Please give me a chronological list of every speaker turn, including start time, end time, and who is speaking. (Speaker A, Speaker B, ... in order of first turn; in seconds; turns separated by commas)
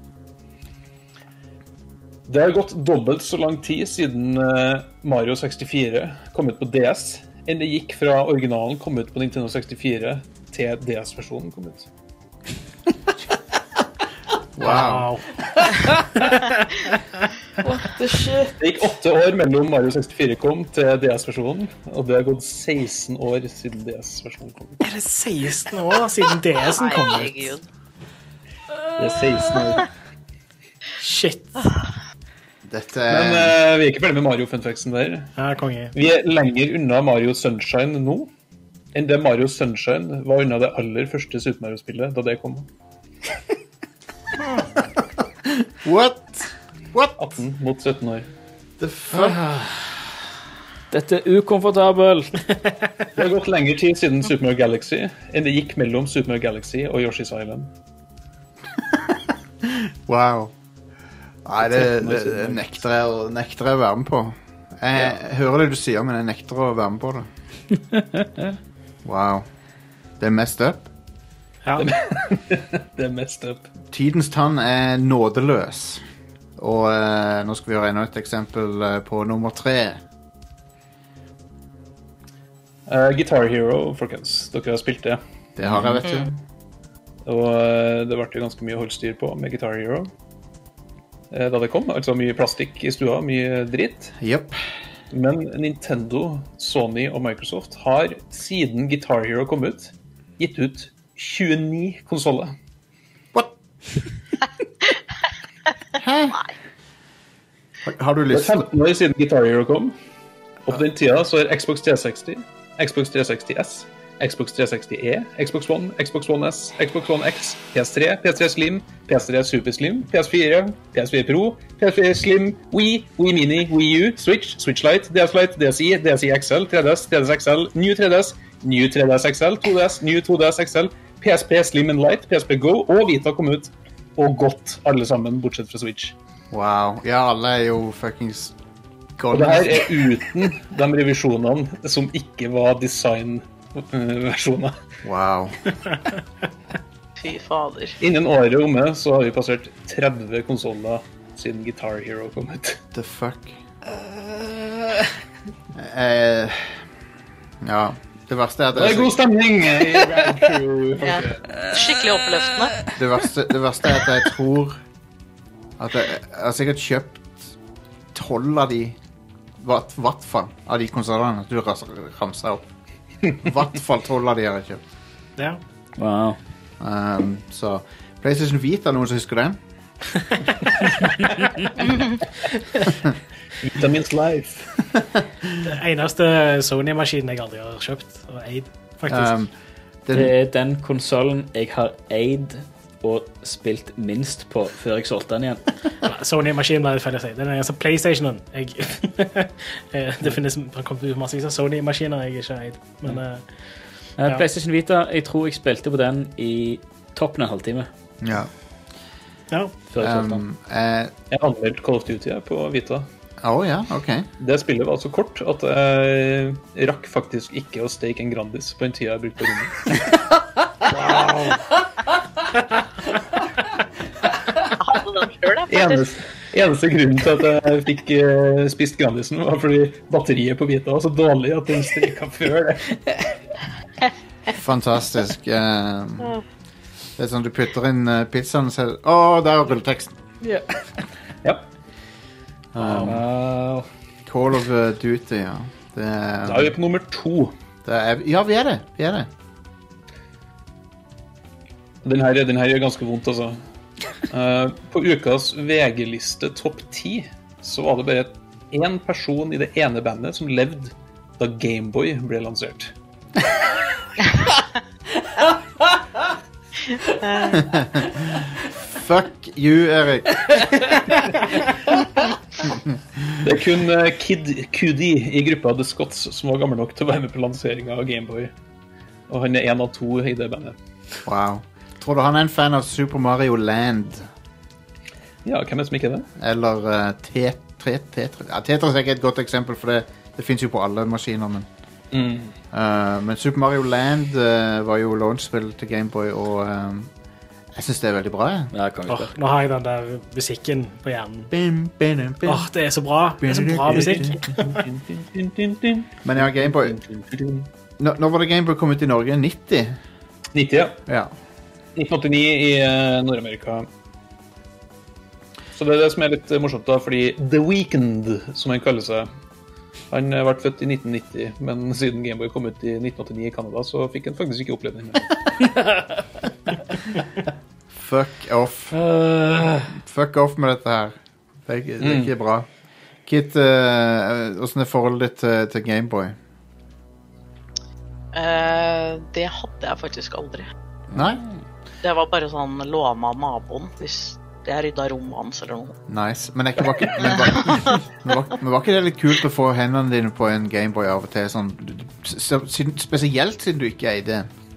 Speaker A: 2.3-11.9, Speaker B: 14.6-15.1, Speaker C: 14.6-15.2, Speaker D: 15.6-16.2, Speaker D: 17.6-18.6, Speaker A: 18.6-24.8, Speaker C: 24.8-27.6, Speaker E: 26.7-27.6, Speaker A: 29.0-29.9, Speaker C: 31.0-31.7, Speaker B: 32.7-33.5, Speaker A: 33.1-35.3, Speaker C: 35.4-35.9, Speaker A: 35.9-38.3, Speaker A: 38.9-42.7, Speaker B: 45.5-47.1, Speaker A: 47.2-48.3, Speaker B: 48.8-49.4, Speaker D: 49.1-49.8, Speaker D: 50.9-52.5, Speaker A: 53.1-57.7, Speaker B: 59.6-60.5, Speaker B: 61.4-67.3, Speaker A: 61.7-62.6, Speaker D: 68.2-68.4, Speaker B: 69.0-69.5, Speaker B: 70.2-70.9, Speaker A: 71.8-73.7, Speaker B: 73.9-76.0, Speaker B: 76.6-80.0, Speaker A: 82.9-85.2, Speaker B: 85.6-86.3, Speaker A: 87.2-90.1, Speaker A: 91.3-94.1, Speaker B: 94.2-94.6, Speaker A: 95.1-102.5, Speaker B: 106.0-106.4, Speaker B: 107.8-108.7, Speaker A: 108.3-110.0, Speaker A: 110.7-136.1, Speaker B: 136.5-138.5, Speaker B: 139.2-139.9, Speaker A: 139.3-144.8, Speaker B: 145.0-145.6, Speaker E: 147.2-148.0, Speaker A: 148.0-152.8, Speaker B: 152.9-153.5, Speaker D: 154.1-155.0, Speaker B: 155.7-156.8, Speaker B: 157.6-159.2, Speaker A: 158.7-161.4, Speaker E: 161.0-162.8, Speaker B: 162.9-164.8, Speaker B: 165.8-167.5, Speaker B: 168.1-169.0, Speaker B: 169.6-172.7, Speaker B: 173.4-174.8, Speaker D: 176.0-176.4, Speaker B: 176.8-179.6, Speaker A: 183.6-184.7, Speaker C: 185.6-189.3, Speaker B: 189.1-189.5, Speaker B: 190.1-190.3, Speaker D: 190.1-195.6, Speaker C: 196.0-203.4, Speaker D: 204.2-207.9, Speaker B: 208.2-208.5, Speaker D: 209.9-210.4, Speaker B: 210.0-211.1, Speaker A: 211.3-213.1, Speaker B: 213.4-214.3, Speaker A: 214.4-220.0, Speaker A: 220.9-221.6, Speaker E: 224.8-226.1, Speaker A: 225.7-232.9, Speaker B: 234.5-236.4, Speaker B: 237.2-240.2, Speaker D: 240.4-240.7, Speaker B: 242.7-243.2, Speaker D: 242.8-243.9, Speaker B: 244.2-246.7, Speaker A: 246.4-247.5, Speaker B: 247.8-249.3, Speaker A: 252.0-253.6, Speaker A: 254.3-262.9, Speaker E: 267.2-267.6, Speaker B: 267.5-270.6, Speaker A: 273.4-278.5, Speaker A: 279.3-280.8, Speaker B: 281.2-284.3, Speaker A: 285.4-286.3, Speaker B: 286.4-291.7, Speaker A: 292.1-292.5, Speaker B: 292.7-297.1, Speaker B: 297.7-298.7, Speaker D: 298.7-299.3, Speaker C: 299.1-301.5, Speaker B: 301.5-302.7, Speaker C: 302.4-304.8, Speaker B: 303.4-304.5, Speaker A: 303.9-307.6, Speaker B: 306.2-307.0, Speaker B: 308.0-310.0, Speaker A: 310.5-311.0, Speaker B: 311.1-311.3, Speaker A: 311.9-313.9, Speaker A: 315.7-319.3, Speaker A: 320.1-325.3, Speaker D: 325.8-326.1, Speaker B: 327.9-329.0, Speaker D: 328.9-329.9, Speaker B: 329.9-332.7, Speaker A: 332.0-332.3, Speaker B: 333.2-336.4, Speaker E: 338.3-340.7, Speaker B: 341.1-341.4, Speaker E: 342.0-345.9, Speaker B: 346.1-354.5, Speaker E: 347.5-347.9